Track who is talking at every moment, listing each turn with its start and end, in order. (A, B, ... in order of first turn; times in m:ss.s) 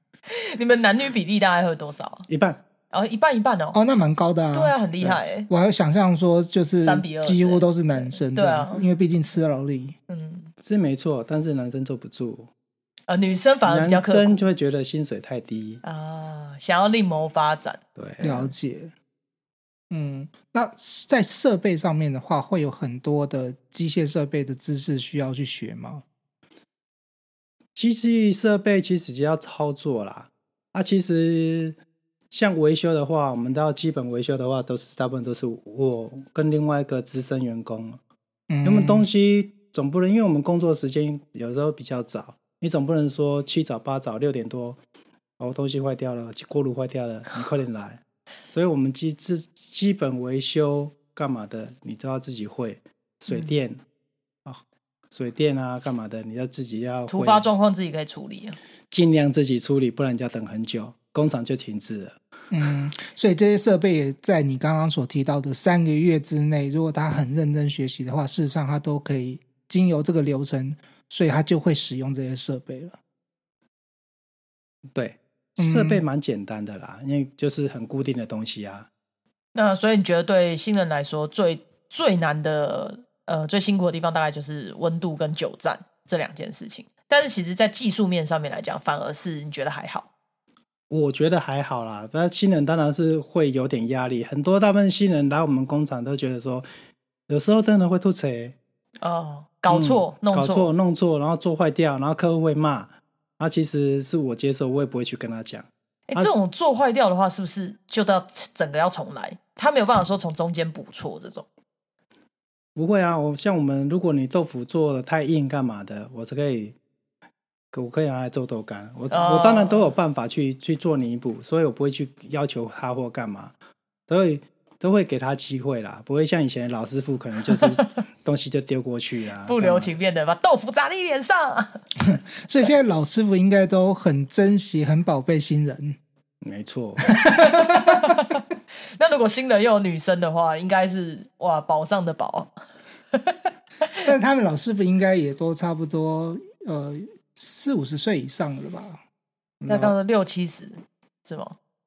0:00.3-0:02.3 A
0:02.3-0:02.6 B
0:02.9-0:03.8 A
0:03.7-0:04.8 C
0:04.5-0:05.5 A
0:05.5-0:10.0 C
0:06.8-0:08.9 A
0:10.1-0:10.5 A
0:10.6-0:12.5 B
0:13.1-0:14.4 A
0:13.6-0:15.8 B
0:15.8-0:18.5 A
0:18.0-0:18.3 B
0:18.2-0:18.9 C
0:19.9-0:26.0 C
0:27.8-0:31.8 B
0:32.3-0:38.0 B
0:38.5-0:39.1 C
0:38.6-0:44.8 B
0:45.4-0:53.8 B
0:55.1-0:57.5 B
0:57.1-0:58.6 A
0:58.9-1:02.2 B
1:02.5-1:13.0 C
1:14.9-1:18.9 B
1:15.6-1:16.0 C
1:19.5-1:30.1 A
1:30.9-1:36.7 B
1:37.3-1:38.6 B
1:39.0-1:40.7 A
1:39.7-1:46.4 B
1:46.1-1:51.5 A
1:52.8-1:56.8 B
1:57.7-2:03.5 B
1:59.1-1:59.9 A
2:04.1-2:10.0 B
2:07.6-2:07.8 A
2:09.5-2:11.8 A
2:12.0-2:16.0 C
2:16.4-2:17.1 B
2:17.1-2:18.2 C
2:17.4-2:22.5 A
2:23.1-2:23.4 A
2:24.1-2:29.0 C
2:29.6-2:29.9 C
2:29.7-2:31.6 A